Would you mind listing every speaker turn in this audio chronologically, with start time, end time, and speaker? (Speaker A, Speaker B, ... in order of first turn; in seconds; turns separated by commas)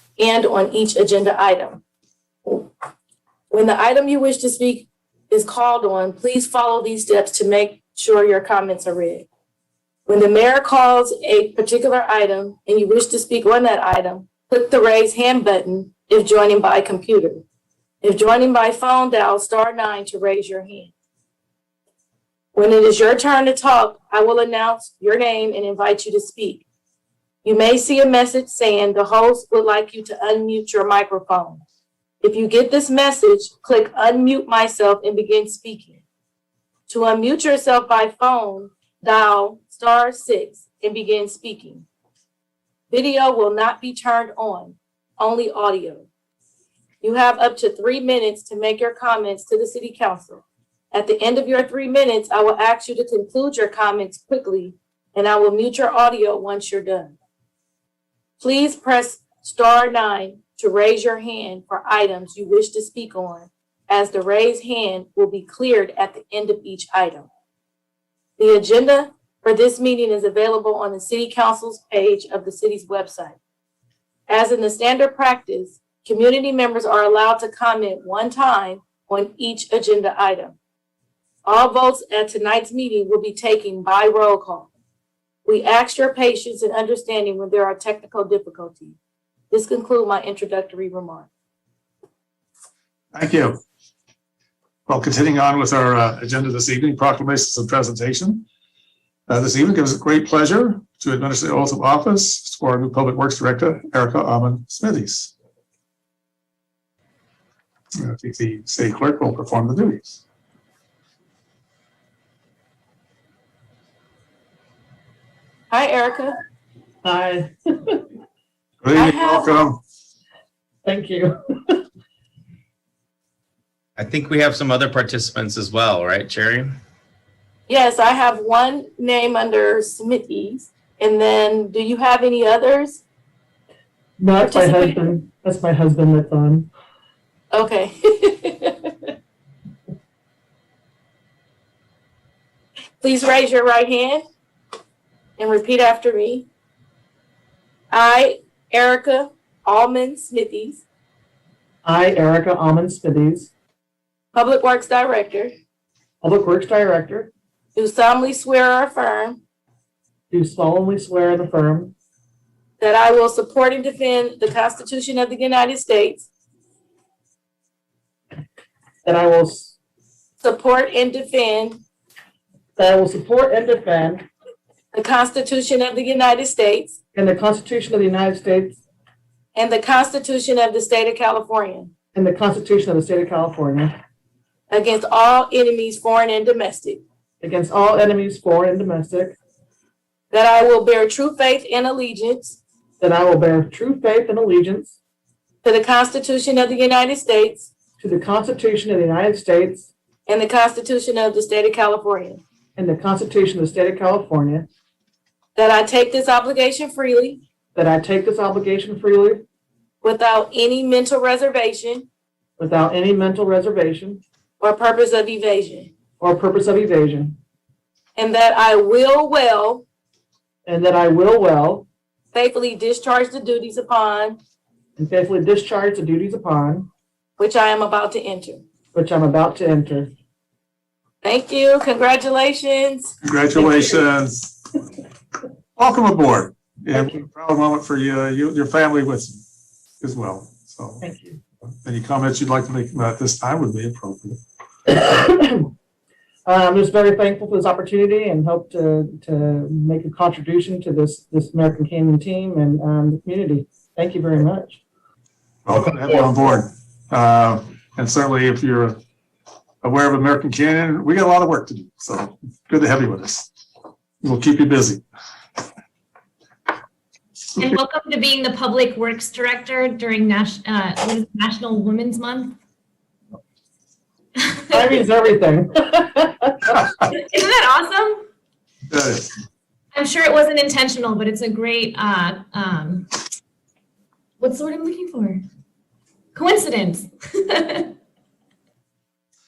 Speaker A: 0.2-1.8, Speaker A: 2.4-2.7, Speaker A: 3.5-9.3, Speaker A: 10.1-17.4, Speaker A: 18.0-20.9, Speaker A: 22.5-26.6, Speaker A: 27.4-31.6, Speaker A: 32.2-36.0, Speaker A: 36.9-41.9, Speaker A: 42.9-46.1, Speaker A: 47.0-57.1, Speaker A: 58.4-67.3, Speaker A: 68.4-73.4, Speaker A: 74.3-80.6, Speaker A: 81.4-84.7, Speaker A: 85.5-89.0, Speaker A: 89.5-91.3, Speaker B: 93.1-93.6, Speaker B: 94.9-98.4, Speaker B: 99.3-105.3, Speaker B: 107.9-110.2, Speaker A: 115.7-116.4, Speaker C: 117.0-118.0, Speaker B: 118.8-119.8, Speaker A: 118.9-119.6, Speaker C: 120.8-121.8, Speaker D: 124.0-126.7, Speaker A: 127.7-133.0, Speaker C: 134.2-136.7, Speaker A: 134.4-135.0, Speaker A: 137.5-139.1, Speaker A: 143.0-144.2, Speaker A: 145.4-146.5, Speaker A: 147.9-150.8, Speaker C: 151.8-153.5, Speaker A: 154.3-155.5, Speaker C: 156.2-157.3, Speaker A: 157.7-159.4, Speaker C: 160.3-161.9, Speaker A: 162.8-166.3, Speaker C: 169.0-169.7, Speaker A: 170.4-171.8, Speaker C: 172.8-174.2, Speaker A: 174.9-176.9, Speaker C: 177.1-178.8, Speaker A: 179.5-181.9, Speaker C: 182.1-183.9, Speaker A: 184.7-187.0, Speaker C: 187.4-189.3, Speaker A: 190.3-192.6, Speaker C: 193.0-194.9, Speaker A: 195.6-197.7, Speaker C: 198.0-199.9, Speaker A: 200.3-202.4, Speaker C: 202.8-204.7, Speaker A: 205.6-207.4, Speaker C: 207.7-209.4, Speaker A: 210.0-212.1, Speaker C: 212.6-214.2, Speaker A: 214.6-215.9, Speaker C: 216.2-217.4, Speaker A: 218.2-219.8, Speaker C: 220.7-221.8, Speaker A: 222.3-224.4, Speaker C: 225.0-226.9, Speaker A: 227.4-228.6, Speaker C: 228.9-230.1, Speaker A: 231.2-233.2, Speaker B: 233.2-234.6, Speaker B: 235.8-239.4, Speaker B: 240.0-241.0, Speaker C: 241.0-241.4, Speaker B: 241.8-244.4, Speaker C: 244.9-245.7, Speaker C: 246.4-254.8, Speaker B: 255.7-259.0, Speaker B: 259.8-263.5, Speaker B: 264.2-265.0, Speaker E: 267.6-272.6, Speaker C: 274.7-276.8, Speaker E: 277.0-278.2, Speaker B: 278.9-279.3, Speaker E: 279.9-283.1, Speaker E: 284.4-285.4, Speaker E: 286.3-287.9